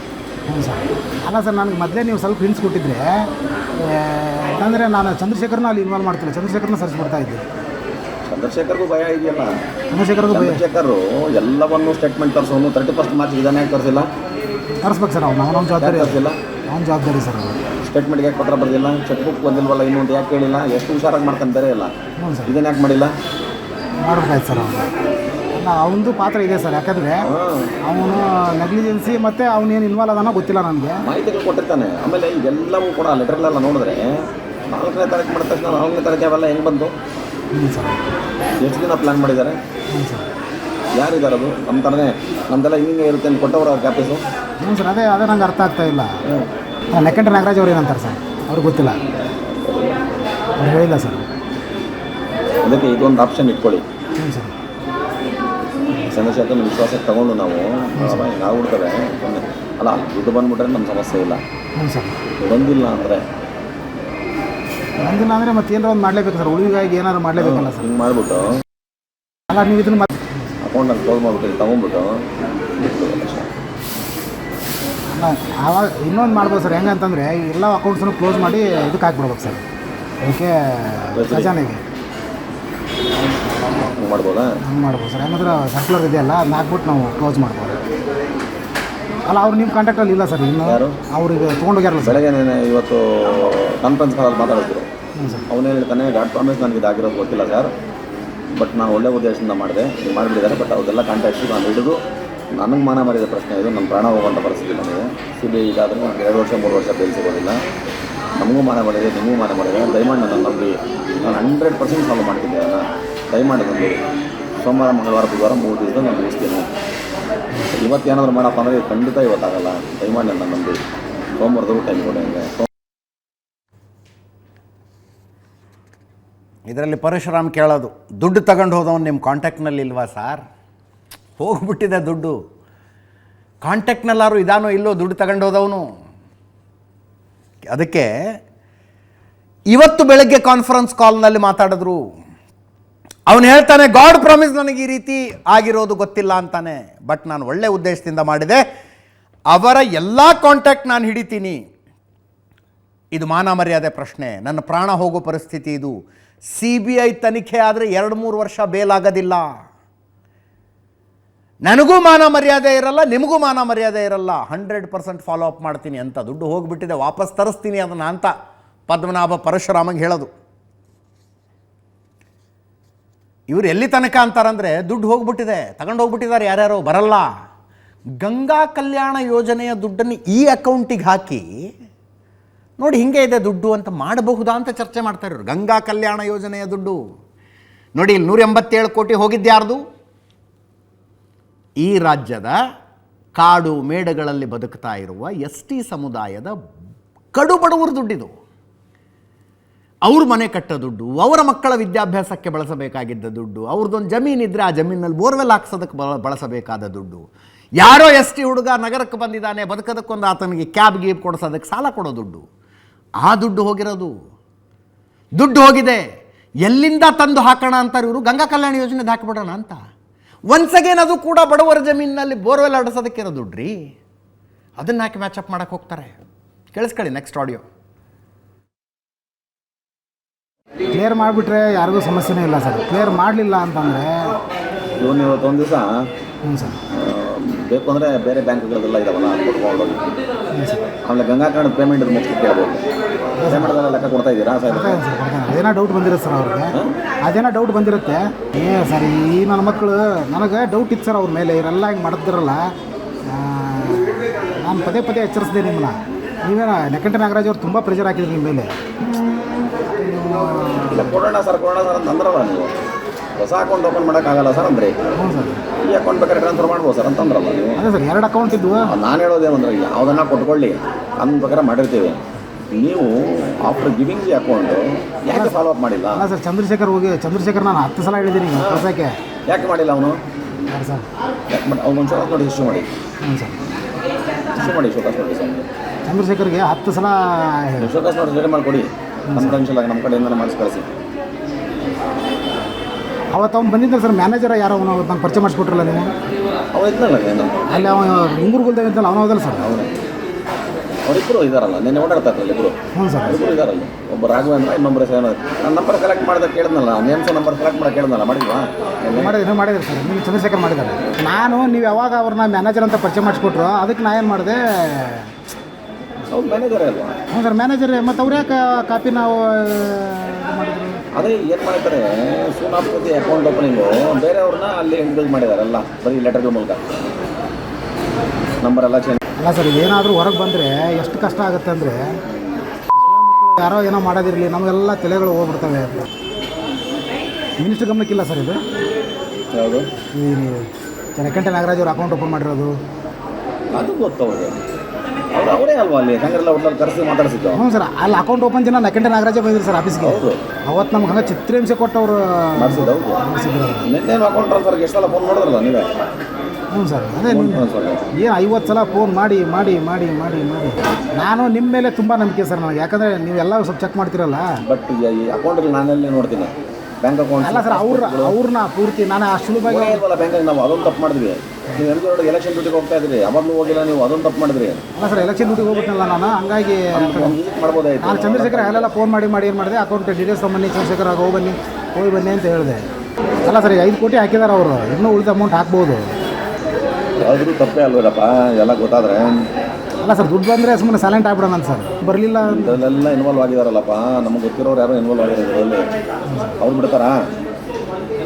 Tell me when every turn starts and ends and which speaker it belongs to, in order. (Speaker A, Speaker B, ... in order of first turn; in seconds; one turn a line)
Speaker A: 0.5-7.5
Speaker B: 8.3-9.5
Speaker A: 9.9-10.6
Speaker B: 10.3-14.1
Speaker A: 14.8-17.6
Speaker B: 15.8-16.4
Speaker B: 17.9-21.9
Speaker A: 22.2-22.6
Speaker B: 22.5-23.1
Speaker A: 24.0-24.9
Speaker A: 25.6-27.3
Speaker B: 27.2-27.7
Speaker A: 27.9-31.1
Speaker B: 31.0-37.0
Speaker A: 37.5-38.0
Speaker B: 38.6-39.6
Speaker A: 39.9-40.3
Speaker B: 40.9-44.2
Speaker A: 44.6-46.2
Speaker A: 46.9-49.0
Speaker B: 49.6-50.0
Speaker A: 50.6-51.2
Speaker B: 52.6-53.9
Speaker A: 54.2-54.5
Speaker A: 55.9-56.2
Speaker B: 56.1-61.4
Speaker A: 58.0-58.3
Speaker A: 61.8-62.2
Speaker B: 62.4-63.2
Speaker A: 65.0-67.9
Speaker B: 67.4-68.6
Speaker A: 69.5-70.5
Speaker B: 70.6-72.2
Speaker B: 72.8-73.5
Speaker A: 75.1-79.6
Speaker A: 80.2-81.8
Speaker B: 81.1-81.6
Speaker B: 84.0-84.6
Speaker A: 84.6-87.8
Speaker A: 89.3-92.2
Speaker B: 90.6-91.0
Speaker B: 92.0-94.9
Speaker A: 95.2-95.5
Speaker B: 95.5-97.7
Speaker B: 98.6-102.0
Speaker B: 102.5-107.6
Speaker B: 108.4-114.0
Speaker B: 114.6-116.7
Speaker B: 117.7-120.8
Speaker B: 121.4-122.7
Speaker C: 126.7-130.4
Speaker C: 131.4-132.4
Speaker C: 133.6-135.8
Speaker C: 137.7-138.1
Speaker C: 139.7-142.0
Speaker C: 143.3-148.6
Speaker C: 149.5-151.6
Speaker C: 153.1-156.0
Speaker C: 156.6-159.5
Speaker C: 161.7-168.3
Speaker C: 168.9-170.3
Speaker C: 173.5-177.3
Speaker C: 178.2-181.5
Speaker C: 182.8-187.0
Speaker C: 188.0-189.8
Speaker C: 191.8-192.6
Speaker C: 193.3-196.6
Speaker C: 197.3-198.3
Speaker C: 200.1-207.3
Speaker C: 207.8-212.5
Speaker C: 213.2-214.2
Speaker C: 215.4-216.1
Speaker C: 216.6-219.8
Speaker C: 220.5-223.8
Speaker C: 224.8-226.2
Speaker C: 226.7-227.6
Speaker A: 230.9-234.4
Speaker B: 235.0-236.1
Speaker A: 236.4-236.8
Speaker B: 236.9-240.1
Speaker A: 240.5-240.9
Speaker B: 241.0-242.9
Speaker A: 243.4-243.7
Speaker B: 243.5-245.0
Speaker A: 244.7-252.6
Speaker A: 253.3-258.7
Speaker A: 259.9-261.2
Speaker B: 260.9-262.7
Speaker B: 263.4-265.0
Speaker A: 265.2-265.6
Speaker B: 265.8-267.8
Speaker A: 267.8-268.9
Speaker B: 268.8-272.2
Speaker B: 272.7-276.3
Speaker A: 275.3-275.6
Speaker A: 276.1-279.2
Speaker B: 278.5-278.9
Speaker B: 279.5-280.2
Speaker A: 280.7-281.1
Speaker B: 281.5-282.9
Speaker A: 283.2-283.6
Speaker B: 284.6-285.6
Speaker A: 286.1-287.9
Speaker B: 287.8-290.9
Speaker A: 289.3-289.6
Speaker A: 293.3-296.1
Speaker B: 296.7-297.8
Speaker A: 297.7-299.7
Speaker B: 299.6-299.9
Speaker B: 301.1-309.4
Speaker A: 302.9-303.4
Speaker A: 309.1-315.3
Speaker B: 316.3-317.1
Speaker A: 317.3-321.0
Speaker B: 321.1-326.8
Speaker B: 328.6-329.2
Speaker A: 329.4-332.2
Speaker B: 332.3-332.7
Speaker A: 333.0-336.1
Speaker A: 337.6-338.6
Speaker B: 339.5-339.9
Speaker A: 340.1-342.8
Speaker B: 343.7-344.6
Speaker B: 345.3-347.7
Speaker A: 347.5-353.9
Speaker B: 350.0-350.4
Speaker B: 352.6-353.2
Speaker B: 353.8-355.9
Speaker A: 356.7-357.7
Speaker B: 357.3-358.1
Speaker A: 358.2-364.5
Speaker B: 364.6-368.4
Speaker A: 367.4-370.0
Speaker B: 369.6-374.8
Speaker A: 374.9-377.4
Speaker B: 376.9-378.9
Speaker A: 378.0-382.8
Speaker A: 383.4-386.1
Speaker B: 387.2-389.4
Speaker A: 390.0-392.8
Speaker B: 392.4-395.9
Speaker A: 396.3-396.6
Speaker B: 396.6-397.2